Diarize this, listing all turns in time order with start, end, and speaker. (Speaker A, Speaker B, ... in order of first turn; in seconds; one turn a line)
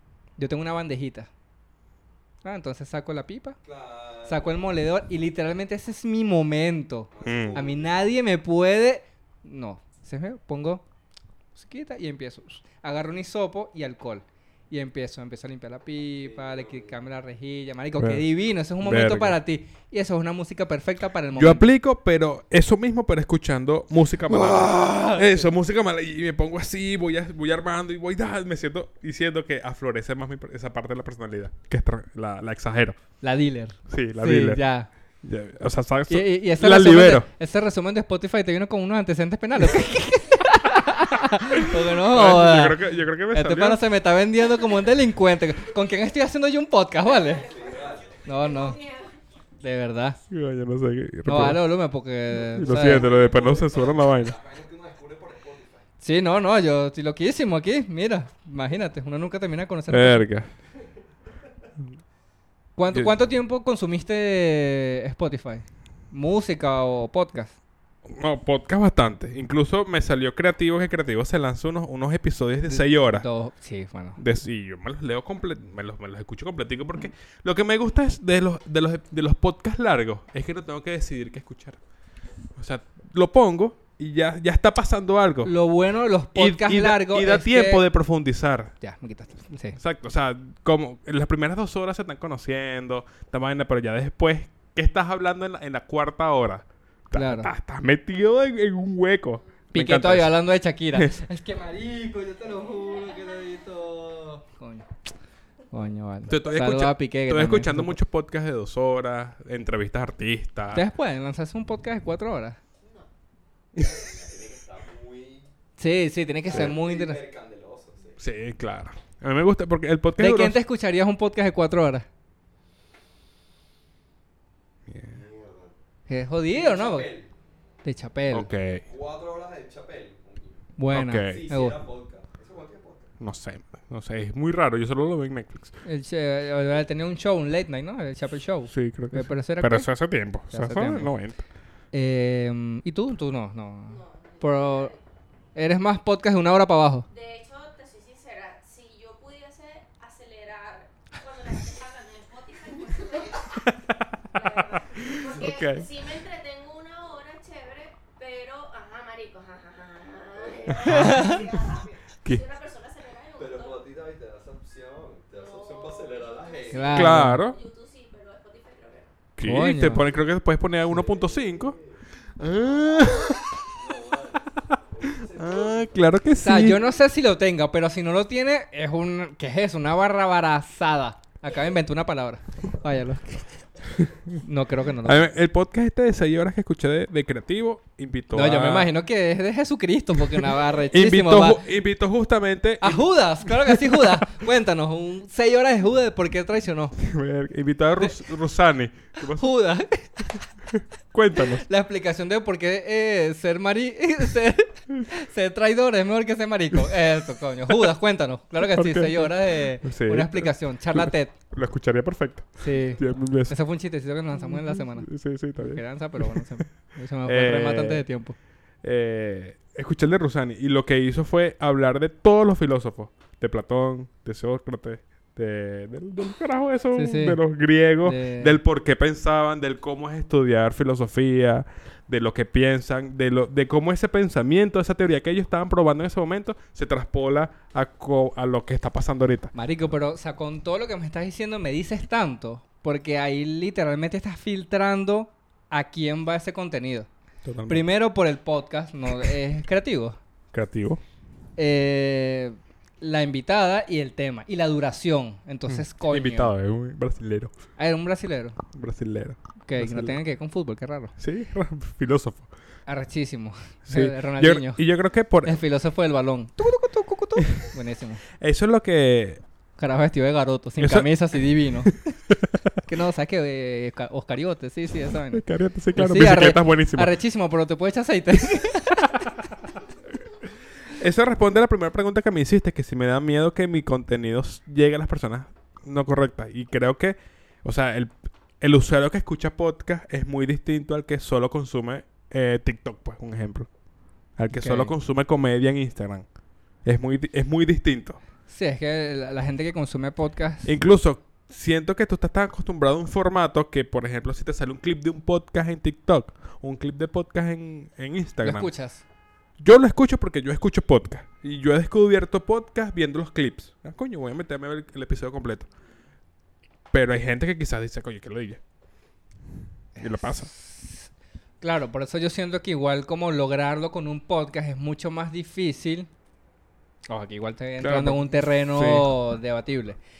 Speaker A: 0.4-1.3
Speaker A: 2.4-3.6
Speaker B: 3.6-4.5
Speaker A: 4.2-10.8
Speaker B: 7.1-7.9
Speaker C: 7.2-7.6
Speaker A: 11.6-21.6
Speaker B: 16.2-16.9
Speaker C: 18.0-18.2
Speaker C: 18.8-19.4
Speaker C: 21.3-33.0
Speaker A: 24.3-25.5
Speaker A: 33.2-34.9
Speaker C: 33.9-34.6
Speaker C: 35.2-37.3
Speaker A: 36.1-47.5
Speaker C: 41.5-43.8
Speaker D: 47.0-49.2
Speaker B: 47.4-48.1
Speaker A: 48.2-48.8
Speaker A: 49.6-50.2
Speaker C: 50.3-51.6
Speaker A: 51.2-53.1
Speaker C: 52.3-54.4
Speaker B: 52.7-55.9
Speaker A: 56.0-60.2
Speaker C: 59.9-60.5
Speaker A: 62.8-67.5
Speaker C: 68.0-73.3
Speaker A: 72.7-74.2
Speaker C: 74.2-81.8
Speaker C: 82.5-85.5
Speaker A: 85.4-87.8
Speaker C: 86.3-88.7
Speaker A: 88.8-89.8
Speaker C: 89.7-100.3
Speaker A: 97.1-97.5
Speaker A: 99.7-104.9
Speaker C: 100.9-101.2
Speaker A: 105.7-108.0
Speaker C: 106.3-110.8
Speaker A: 110.7-112.6
Speaker B: 113.7-115.5
Speaker A: 115.8-117.2
Speaker B: 116.4-118.2
Speaker C: 118.2-120.6
Speaker A: 120.2-122.0
Speaker C: 124.9-125.2
Speaker B: 125.0-125.7
Speaker A: 126.1-127.1
Speaker B: 126.5-127.3
Speaker A: 127.8-128.5
Speaker C: 128.3-128.8
Speaker B: 128.9-133.1
Speaker A: 130.8-131.8
Speaker C: 130.9-131.4
Speaker C: 133.2-135.7
Speaker A: 135.8-139.9
Speaker C: 138.7-141.4
Speaker A: 140.5-141.1
Speaker A: 141.9-144.9
Speaker D: 143.9-145.0
Speaker A: 145.5-147.1
Speaker D: 147.1-153.7
Speaker D: 154.3-163.8
Speaker C: 154.8-155.9
Speaker B: 160.3-160.9
Speaker C: 160.8-161.2
Speaker A: 160.8-161.4
Speaker B: 163.4-167.1
Speaker D: 165.3-169.1
Speaker A: 166.7-167.4
Speaker C: 166.9-167.6
Speaker C: 169.3-171.8
Speaker A: 169.4-170.0
Speaker B: 170.9-175.9
Speaker C: 172.4-173.5
Speaker C: 175.1-176.8
Speaker A: 176.4-183.4
Speaker C: 184.0-184.4
Speaker A: 184.4-185.3
Speaker C: 185.0-188.9
Speaker A: 188.3-191.6
Speaker C: 190.4-194.2
Speaker A: 192.8-197.0
Speaker C: 197.0-199.4
Speaker A: 199.3-200.3
Speaker C: 200.7-201.6
Speaker A: 201.4-211.3
Speaker C: 208.6-213.6
Speaker A: 212.6-218.3
Speaker C: 214.4-216.5
Speaker C: 217.2-218.0
Speaker C: 218.8-239.5
Speaker A: 226.9-227.4
Speaker A: 228.0-228.6
Speaker A: 239.5-247.1
Speaker C: 247.4-247.8
Speaker A: 247.7-250.2
Speaker C: 250.5-251.0
Speaker A: 251.6-256.5
Speaker C: 255.7-257.5
Speaker A: 257.8-258.6
Speaker C: 258.7-260.2
Speaker A: 259.6-261.1
Speaker C: 261.2-262.5
Speaker A: 262.9-264.8
Speaker C: 263.9-265.6
Speaker A: 265.4-268.2
Speaker C: 267.4-267.6
Speaker C: 268.4-269.4
Speaker A: 269.8-272.1
Speaker C: 270.8-271.1
Speaker C: 271.8-272.8
Speaker A: 272.9-279.2
Speaker C: 275.3-277.1
Speaker C: 280.9-293.7
Speaker C: 294.4-296.2
Speaker A: 294.5-294.9
Speaker C: 296.8-298.2
Speaker A: 298.5-300.7
Speaker C: 300.6-308.7
Speaker A: 308.4-309.0
Speaker C: 309.6-315.7
Speaker C: 316.9-318.6
Speaker A: 320.0-321.1
Speaker C: 320.0-320.5
Speaker A: 321.6-326.1
Speaker A: 327.1-330.0
Speaker C: 327.8-329.1